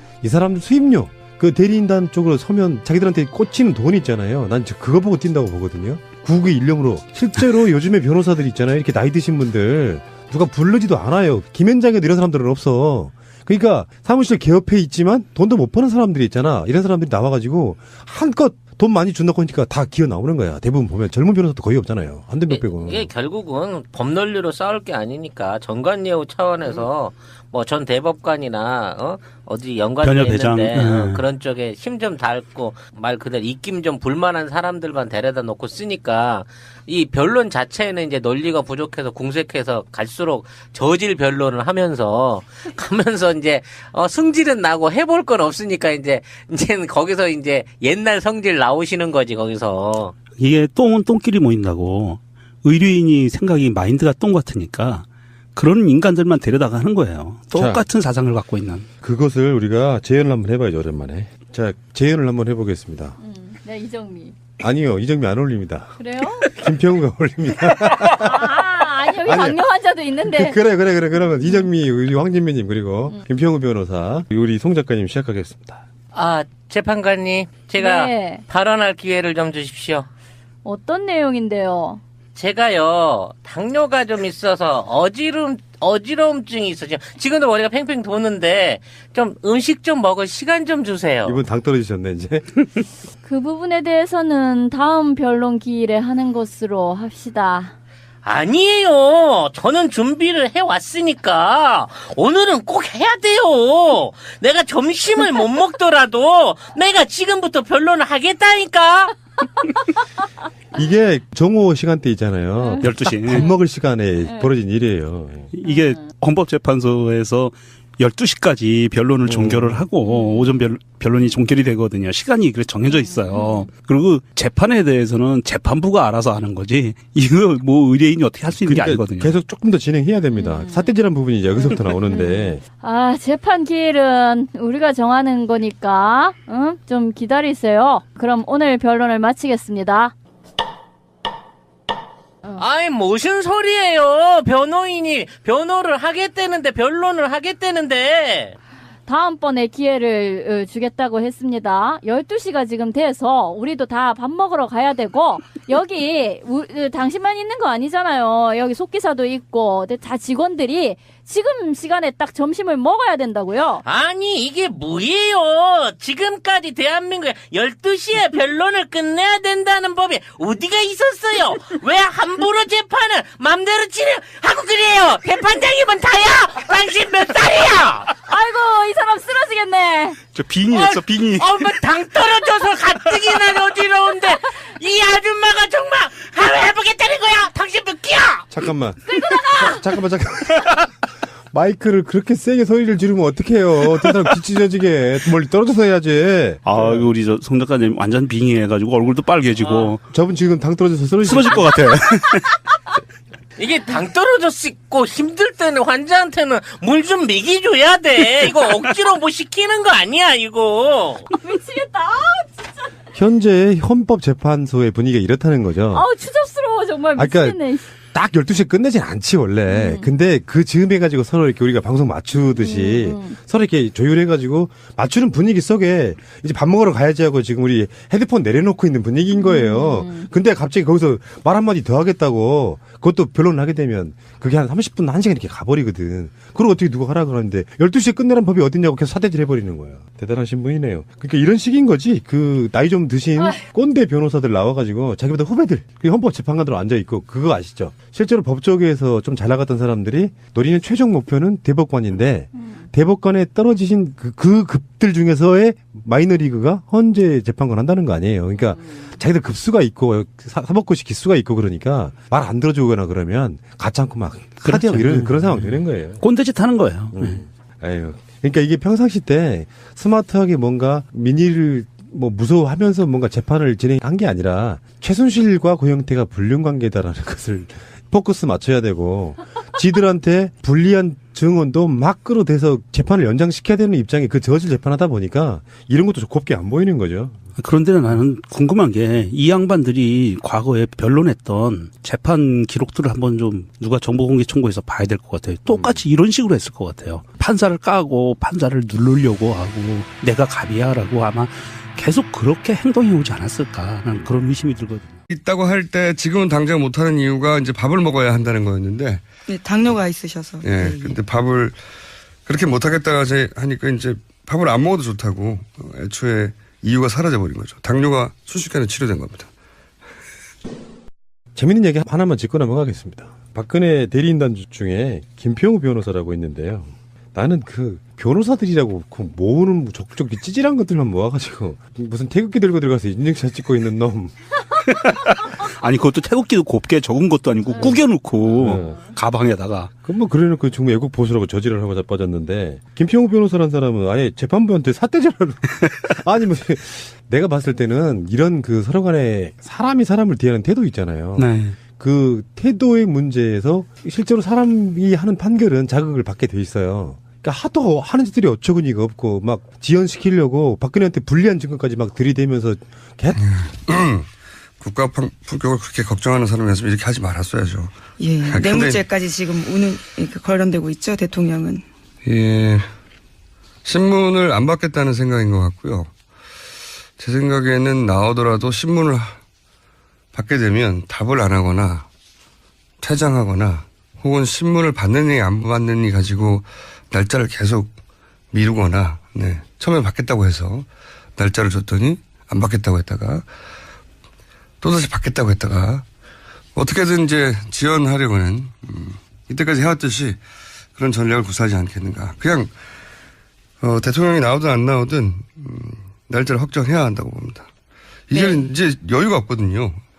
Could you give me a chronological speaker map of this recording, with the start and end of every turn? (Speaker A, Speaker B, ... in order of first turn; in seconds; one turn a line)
Speaker A: 0.2-23.1
Speaker B: 22.5-50.1
Speaker C: 30.0-31.2
Speaker C: 50.4-58.9
Speaker A: 57.5-57.8
Speaker A: 59.0-63.2
Speaker D: 63.2-64.3
Speaker A: 64.6-68.5
Speaker D: 66.0-66.5
Speaker D: 68.0-70.6
Speaker A: 69.2-69.6
Speaker A: 70.2-75.8
Speaker B: 76.1-80.1
Speaker D: 77.8-78.4
Speaker D: 80.6-82.0
Speaker B: 82.3-91.4
Speaker A: 91.2-92.6
Speaker D: 93.2-97.7
Speaker B: 98.2-109.1
Speaker A: 110.7-115.5
Speaker D: 112.7-113.5
Speaker C: 112.8-113.5
Speaker D: 114.2-114.5
Speaker C: 115.5-129.3
Speaker D: 115.7-116.0
Speaker A: 119.2-119.9
Speaker D: 120.0-120.5
Speaker D: 123.1-123.7
Speaker A: 128.6-132.6
Speaker D: 130.4-130.9
Speaker D: 132.1-140.1
Speaker B: 142.6-148.6
Speaker D: 149.1-163.8
Speaker B: 163.8-178.1
Speaker D: 178.2-180.2
Speaker C: 180.3-181.8
Speaker B: 180.7-188.5
Speaker A: 188.5-190.9
Speaker D: 189.1-189.6
Speaker A: 191.5-197.1
Speaker C: 196.6-200.0
Speaker B: 199.6-199.9
Speaker A: 200.1-201.7
Speaker C: 201.2-202.6
Speaker B: 203.6-211.2
Speaker D: 211.3-212.9
Speaker A: 213.1-216.1
Speaker D: 215.9-217.8
Speaker A: 217.2-266.2
Speaker D: 219.7-220.1
Speaker D: 222.6-223.4
Speaker D: 229.3-230.3
Speaker C: 264.6-267.4
Speaker A: 267.1-287.4
Speaker C: 287.6-305.2
Speaker A: 295.7-296.0
Speaker E: 305.3-309.2
Speaker F: 309.5-311.2
Speaker E: 310.6-311.8
Speaker E: 312.5-319.5
Speaker A: 321.6-334.3
Speaker C: 334.8-339.9
Speaker A: 338.6-339.1
Speaker A: 340.0-363.4
Speaker C: 351.4-351.8
Speaker E: 363.5-364.3
Speaker E: 364.8-367.9
Speaker F: 368.2-371.8
Speaker E: 368.4-369.0
Speaker E: 372.2-372.9
Speaker E: 373.9-376.1
Speaker E: 377.2-379.4
Speaker E: 380.3-382.1
Speaker E: 383.0-387.9
Speaker E: 388.5-393.5
Speaker E: 394.8-396.0
Speaker E: 396.8-400.4
Speaker E: 401.0-402.7
Speaker E: 403.8-407.7
Speaker E: 408.3-410.0
Speaker F: 408.3-408.6